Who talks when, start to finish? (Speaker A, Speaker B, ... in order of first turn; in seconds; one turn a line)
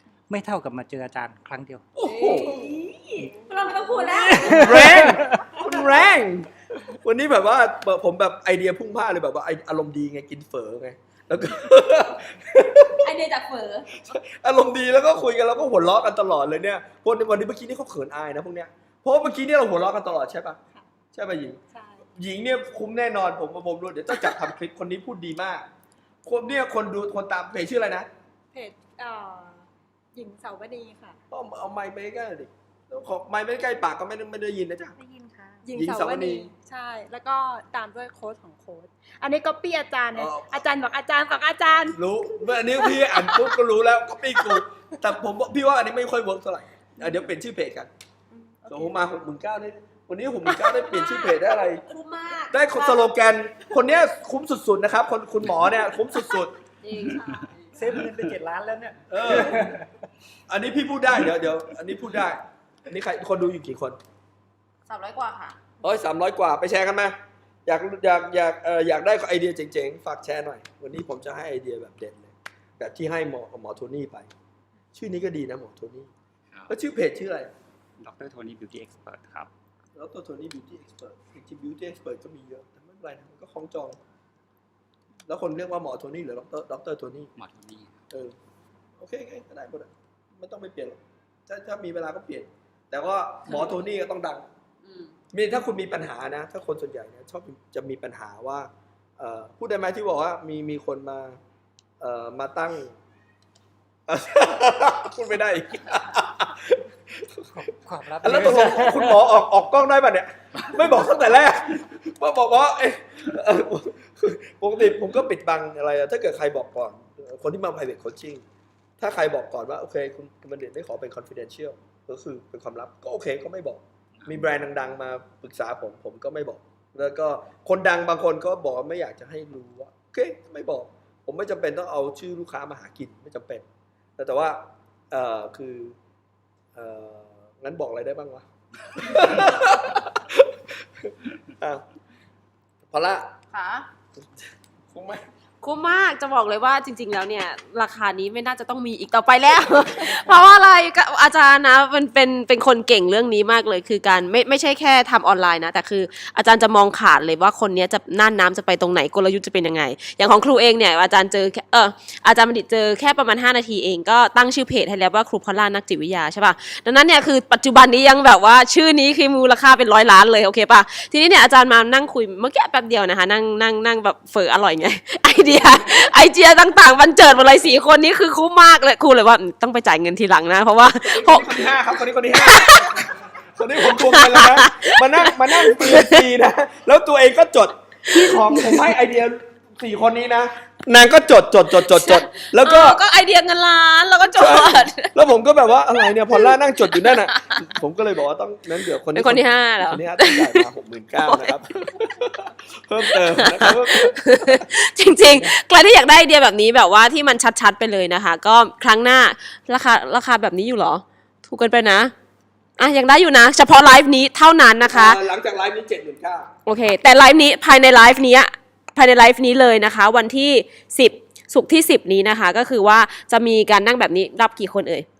Speaker A: 0.3-1.8
Speaker B: 1.9-2.8
Speaker C: 2.0-6.1
Speaker B: 4.1-13.1
Speaker A: 4.3-5.5
Speaker C: 12.9-13.9
Speaker B: 13.9-20.6
Speaker B: 21.1-21.6
Speaker D: 21.7-22.0
Speaker B: 22.1-25.7
Speaker B: 26.2-28.1
Speaker D: 28.5-31.2
Speaker B: 31.3-35.0
Speaker C: 35.0-35.6
Speaker D: 35.6-42.1
Speaker B: 35.7-36.5
Speaker B: 40.1-40.6
Speaker B: 41.9-47.9
Speaker D: 48.3-49.0
Speaker B: 48.7-51.8
Speaker D: 50.6-50.9
Speaker C: 51.0-53.1
Speaker B: 52.5-56.5
Speaker C: 56.8-57.8
Speaker A: 57.7-59.9
Speaker B: 59.1-59.8
Speaker B: 60.5-64.0
Speaker C: 64.9-65.6
Speaker B: 65.8-74.3
Speaker B: 74.9-76.1
Speaker B: 76.7-77.5
Speaker E: 78.0-79.5
Speaker B: 79.9-84.0
Speaker B: 85.3-87.3
Speaker E: 87.3-88.0
Speaker B: 88.1-88.3
Speaker B: 89.0-94.5
Speaker C: 94.8-95.1
Speaker B: 95.3-101.4
Speaker B: 102.0-102.9
Speaker B: 104.1-107.5
Speaker A: 107.5-109.3
Speaker B: 108.2-118.4
Speaker B: 119.0-133.6
Speaker B: 134.2-136.0
Speaker B: 136.7-141.8
Speaker B: 142.9-143.3
Speaker C: 143.5-143.9
Speaker B: 144.9-145.2
Speaker C: 145.6-181.7
Speaker B: 181.0-193.0
Speaker C: 182.3-183.1
Speaker C: 183.9-186.2
Speaker C: 188.1-188.9
Speaker C: 191.8-195.1
Speaker B: 194.3-204.6
Speaker C: 196.3-197.6
Speaker C: 199.1-200.7
Speaker C: 201.2-201.6
Speaker C: 203.1-212.1
Speaker C: 212.8-215.2
Speaker B: 214.9-216.5
Speaker C: 216.7-225.1